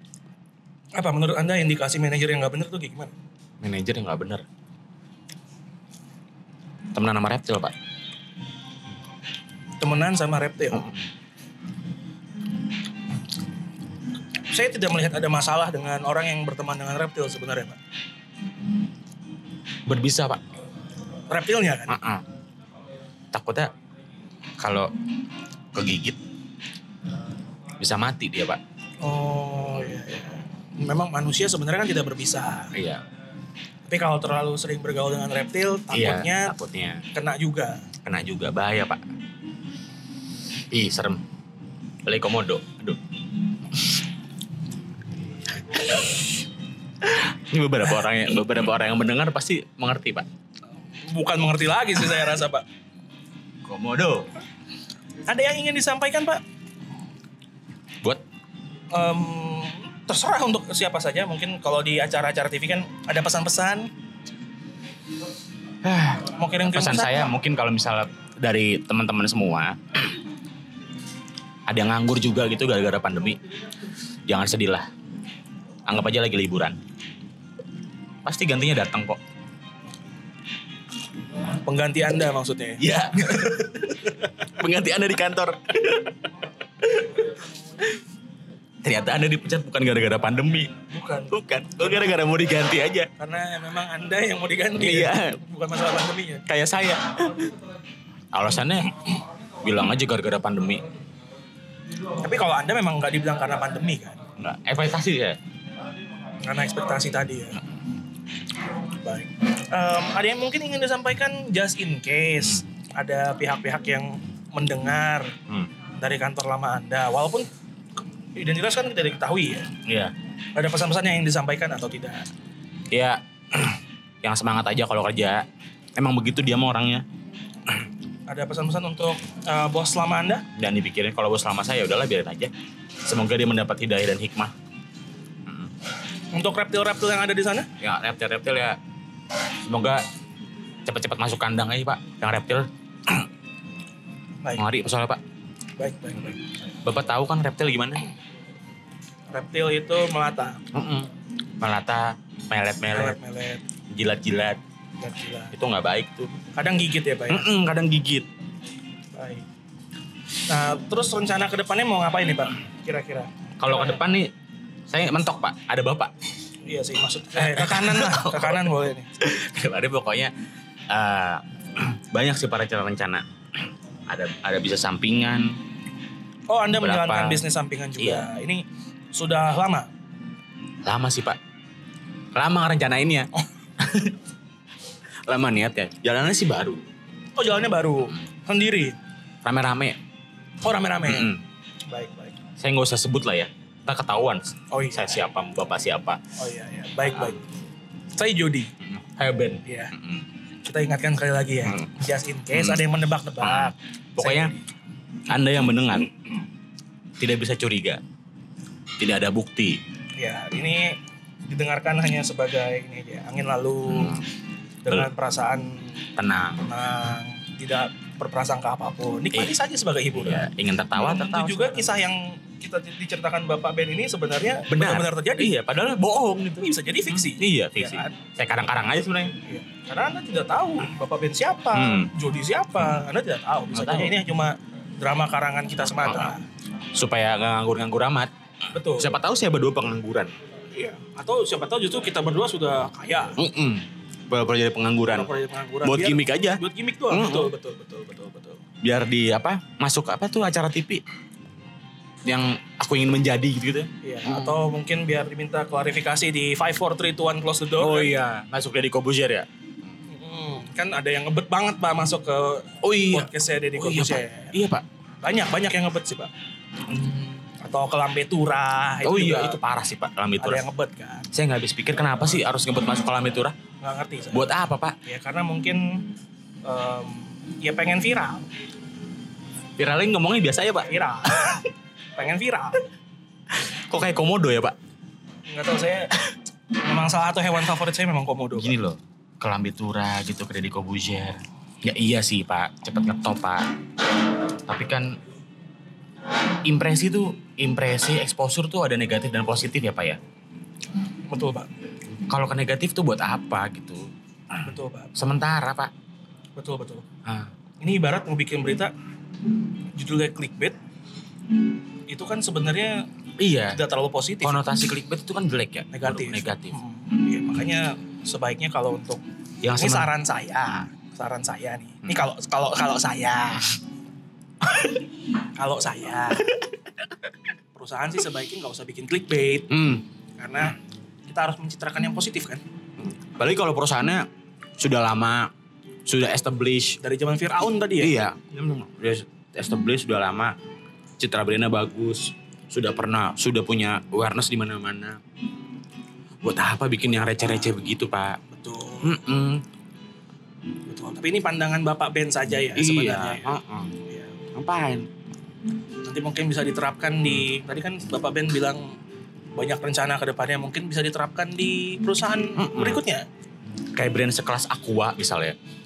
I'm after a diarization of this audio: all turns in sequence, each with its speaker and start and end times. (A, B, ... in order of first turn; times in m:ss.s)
0:00.9-0:03.1 A
0:03.6-0:04.4 B
0:06.9-0:07.7 B
0:09.8-0:10.9 A
0:14.5-0:17.8 A
0:19.8-0:20.4 B
0:21.3-0:22.0 A
0:21.9-0:22.2 B
0:23.3-0:23.7 B
0:24.6-0:24.9 B
0:25.7-0:26.2 B
0:27.8-0:28.6 B
0:29.0-0:32.7 A
0:32.7-0:33.0 B
0:33.9-0:36.5 A
0:35.9-0:37.0 B
0:37.1-0:37.8 A
0:38.0-0:39.0 B
0:40.7-0:41.2 B
0:42.0-0:43.0 B
0:43.7-0:44.0 B
0:45.6-0:46.2 B
0:47.0-0:50.2 B
0:51.0-0:52.6 A
0:53.6-0:54.3 B
0:55.3-0:56.4 A
0:58.9-1:03.9 A
1:05.8-1:09.8 B
1:06.3-1:07.3 A
1:11.7-1:13.4 B
1:14.3-1:14.9 B
1:15.8-1:16.8 B
1:18.2-1:19.2 B
1:21.6-1:22.8 A
1:22.8-1:26.3 B
1:26.8-1:27.3 B
1:28.8-1:30.7 B
1:30.9-1:31.4 A
1:31.3-1:33.1 B
1:33.2-1:36.4 A
1:34.8-1:35.4 B
1:36.4-1:37.5 B
1:38.3-1:39.1 B
1:39.6-1:40.8 B
1:42.2-1:44.2 A
1:44.4-1:45.4 B
1:46.4-1:47.6 A
1:48.9-1:55.3 A
1:56.0-1:57.5 A
1:58.3-1:59.7 A
1:59.8-2:00.1 B
2:00.6-2:02.3 A
2:02.9-2:05.4 B
2:06.0-2:07.0 B
2:08.3-2:10.4 A
2:10.5-2:12.5 B
2:13.0-2:14.5 B
2:15.4-2:15.7 B
2:16.3-2:17.7 A
2:17.8-2:18.8 B
2:19.6-2:20.0 B
2:20.8-2:23.3 B
2:24.6-2:25.2 B
2:25.8-2:26.4 A
2:26.8-2:28.1 B
2:29.3-2:30.6 A
2:30.7-2:33.2 B
2:32.9-2:33.6 A
2:33.9-2:34.6 B
2:35.0-2:35.5 A
2:35.5-2:36.3 B
2:36.5-2:37.5 A
2:37.3-2:38.3 B
2:39.1-2:39.4 A
2:40.5-2:44.0 A
2:43.6-2:44.3 B
2:44.9-2:46.1 B
2:46.6-2:49.1 A
2:47.4-2:50.3 B
2:50.9-2:55.6 B
2:56.5-2:59.9 A
2:56.8-2:57.4 B
2:58.0-2:58.3 B
3:00.8-3:01.4 B
3:02.3-3:04.2 B
3:05.2-3:06.8 B
3:07.4-3:09.0 A
3:09.4-3:10.0 B
3:10.6-3:11.3 A
3:11.0-3:11.4 B
3:11.9-3:12.4 A
3:12.6-3:16.2 B
3:14.7-3:15.2 A
3:16.4-3:17.4 A
3:17.1-3:17.3 B
3:18.2-3:18.7 A
3:18.8-3:20.2 B
3:19.6-3:19.9 A
3:20.6-3:24.6 A
3:21.6-3:21.9 B
3:22.5-3:22.8 B
3:23.4-3:24.5 B
3:25.3-3:26.1 B
3:27.2-3:28.0 B
3:29.0-3:29.8 B
3:30.2-3:34.2 A
3:33.9-3:34.2 B
3:34.8-3:35.9 A
3:36.2-3:36.6 B
3:36.6-3:45.5 A
3:40.1-3:41.9 B
3:44.7-3:49.4 B
3:46.6-3:48.2 A
3:49.4-3:56.4 A
3:51.7-3:52.1 B
3:53.7-3:54.2 B
3:56.0-3:56.3 B
3:56.9-3:58.3 B
3:58.7-3:59.1 A
3:58.9-4:00.3 B
4:00.7-4:03.4 A
4:03.4-4:05.3 B
4:05.1-4:08.6 A
4:05.8-4:07.5 B
4:08.8-4:11.0 B
4:12.2-4:14.6 B
4:14.0-4:18.1 A
4:17.8-4:19.5 B
4:20.1-4:24.6 A
4:22.8-4:24.8 B
4:25.2-4:26.3 A
4:27.0-4:29.6 A
4:29.0-4:30.6 B
4:30.4-4:31.3 A
4:31.3-4:33.6 B
4:33.8-4:36.1 A
4:34.3-4:35.0 B
4:36.6-4:38.4 A
4:39.8-4:40.9 B
4:40.8-4:42.8 A
4:43.5-4:44.8 B
4:45.5-4:46.1 A
4:46.8-4:48.7 A
4:48.6-4:53.7 B
4:54.5-4:55.2 B
4:56.6-5:00.2 B
5:01.3-5:01.7 A
5:02.2-5:05.9 B
5:04.6-5:05.1 A
5:06.6-5:07.0 A
5:07.2-5:07.5 B
5:07.8-5:08.9 A
5:10.0-5:10.8 A
5:12.1-5:13.0 A
5:13.4-5:13.8 B
5:13.7-5:14.6 A
5:14.4-5:16.8 B
5:15.9-5:19.2 A
5:19.6-5:20.1 B
5:19.8-5:23.7 A
5:25.6-5:26.5 A
5:27.7-5:29.8 A
5:29.7-5:30.0 B
5:30.4-5:30.8 A
5:31.3-5:32.6 A
5:33.0-5:35.5 B
5:36.0-5:37.0 B
5:37.0-5:38.1 A
5:38.0-5:40.6 B
5:41.2-5:45.2 B
5:46.4-5:48.4 B
5:47.1-5:47.7 A
5:48.5-5:49.2 A
5:49.0-5:49.6 B
5:50.9-5:54.4 A
5:52.8-5:53.9 B
5:54.5-5:55.1 B
5:56.0-5:58.9 A
5:59.5-6:03.2 A
6:02.6-6:03.0 B
6:03.9-6:05.6 B